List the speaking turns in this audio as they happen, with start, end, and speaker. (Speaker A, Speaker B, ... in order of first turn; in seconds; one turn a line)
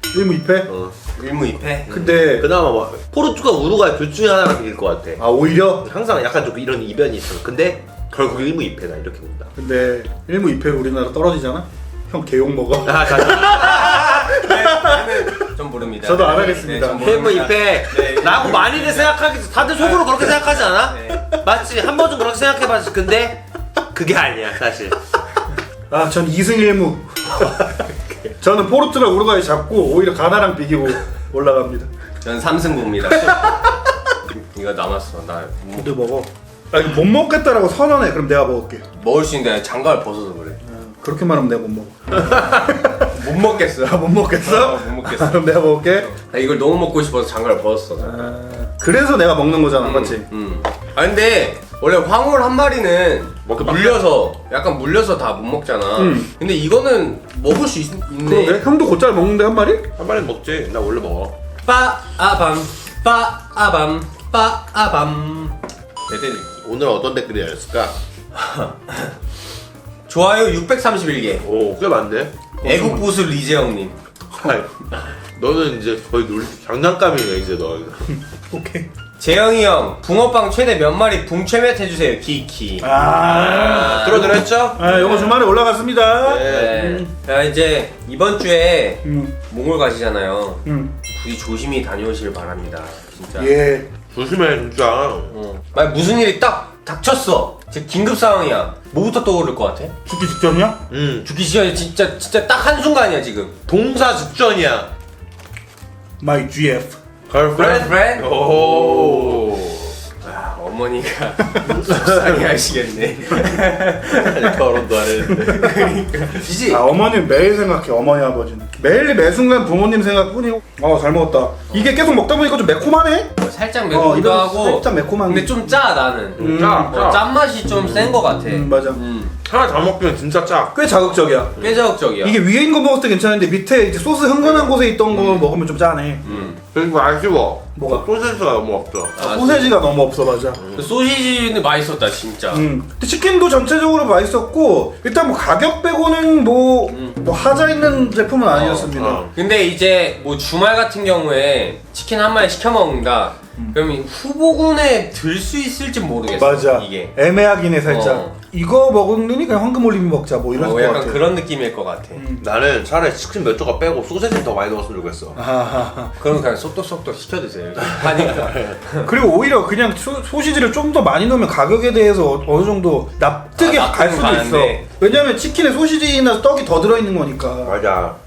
Speaker A: 0.1-0.7
Speaker B: 0.7-0.9
Speaker C: 1.1-1.9
Speaker B: 1.9-5.2
Speaker A: 1.9-2.5
Speaker A: 5.2-5.9
Speaker B: 5.8-9.5
Speaker A: 9.6-15.5
Speaker B: 12.8-14.3
Speaker C: 13.6-21.3
Speaker A: 16.0-17.0
Speaker B: 17.0-25.0
Speaker A: 25.9-27.7
Speaker A: 28.4-31.9
Speaker C: 32.2-33.6
Speaker A: 33.1-33.8
Speaker C: 34.3-35.9
Speaker A: 35.8-38.8
Speaker C: 39.0-40.6
Speaker A: 40.6-46.1
Speaker C: 43.0-45.5
Speaker C: 46.1-48.3
Speaker A: 48.0-50.2
Speaker C: 49.8-58.6
Speaker B: 53.5-54.1
Speaker A: 56.0-56.3
Speaker A: 58.2-59.9
Speaker B: 60.0-61.3
Speaker C: 61.6-65.5
Speaker C: 66.1-66.6
Speaker B: 66.6-68.0
Speaker C: 68.4-69.1
Speaker C: 70.1-71.4
Speaker B: 71.4-72.3
Speaker C: 72.6-74.0
Speaker A: 72.6-73.1
Speaker B: 74.3-78.1
Speaker A: 78.5-78.9
Speaker C: 79.2-85.4
Speaker A: 82.8-87.1
Speaker B: 83.4-85.2
Speaker B: 86.2-87.0
Speaker C: 86.4-93.5
Speaker A: 89.0-89.3
Speaker A: 90.7-90.9
Speaker A: 93.4-93.9
Speaker B: 94.1-95.3
Speaker C: 95.3-99.9
Speaker A: 100.0-100.8
Speaker B: 100.9-101.3
Speaker C: 101.2-103.5
Speaker B: 103.7-104.9
Speaker A: 106.2-107.0
Speaker B: 107.3-109.8
Speaker C: 107.5-114.6
Speaker B: 111.9-112.5
Speaker B: 114.1-116.0
Speaker C: 115.3-116.8
Speaker A: 116.7-123.3
Speaker C: 123.4-129.3
Speaker A: 123.9-125.8
Speaker A: 126.4-127.0
Speaker B: 126.4-127.3
Speaker A: 127.8-129.0
Speaker B: 129.4-130.8
Speaker A: 130.7-131.6
Speaker B: 131.6-131.8
Speaker C: 131.6-132.4
Speaker A: 132.2-136.3
Speaker B: 134.4-134.7
Speaker C: 136.2-136.6
Speaker B: 136.3-139.2
Speaker A: 137.8-138.1
Speaker C: 139.2-139.8
Speaker A: 139.2-140.6
Speaker B: 140.6-140.9
Speaker C: 140.8-142.7
Speaker A: 142.5-149.3
Speaker C: 146.9-147.2
Speaker C: 148.5-157.1
Speaker B: 148.9-149.3
Speaker A: 156.4-161.3
Speaker C: 157.8-158.3
Speaker C: 160.5-162.2
Speaker A: 162.1-162.4
Speaker B: 162.4-165.4
Speaker A: 165.4-166.2
Speaker C: 166.2-169.1
Speaker B: 167.8-168.8
Speaker A: 169.0-177.8
Speaker C: 173.6-174.8
Speaker B: 177.6-178.2